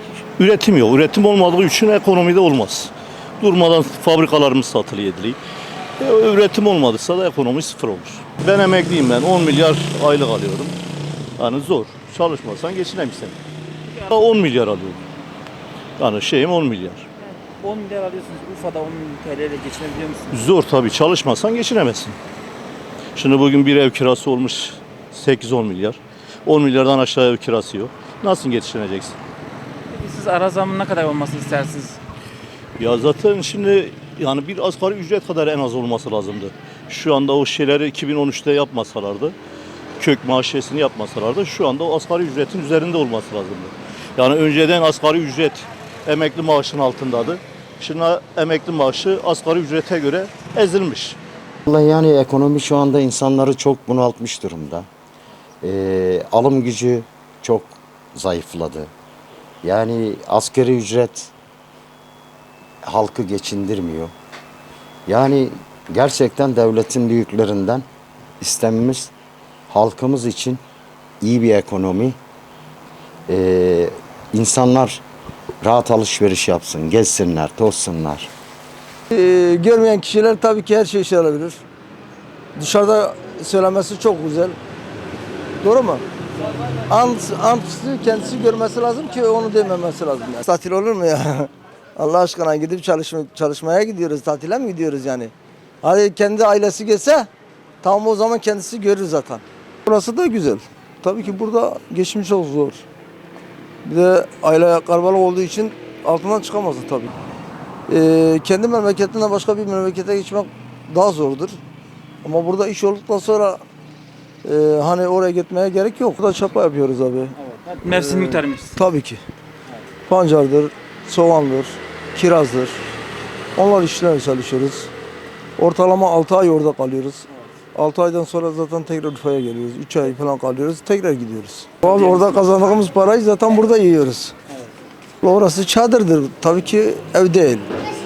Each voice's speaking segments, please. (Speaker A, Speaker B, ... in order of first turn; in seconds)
Speaker A: 0.4-5.4, 6.0-10.8, 11.4-13.3, 14.1-15.0, 16.0-17.1, 20.3-22.2, 23.1-29.2, 32.8-39.4, 40.0-51.2
Speaker B: 17.4-20.3, 29.9-32.0, 117.5-118.7
Speaker C: 51.7-54.9, 55.6-58.9, 59.6-61.3, 62.8-64.1, 65.1-67.8, 68.4-69.1, 69.7-70.6, 71.2-72.2, 73.3-75.0, 75.6-78.3
Speaker D: 79.1-81.6, 82.6-84.6, 85.6-86.0, 86.9-97.3, 97.8-102.8, 103.8-107.1, 107.9-111.6, 112.2-113.6, 114.4-119.2, 120.1-122.8, 123.6-124.9, 125.6-134.3, 135.2-137.7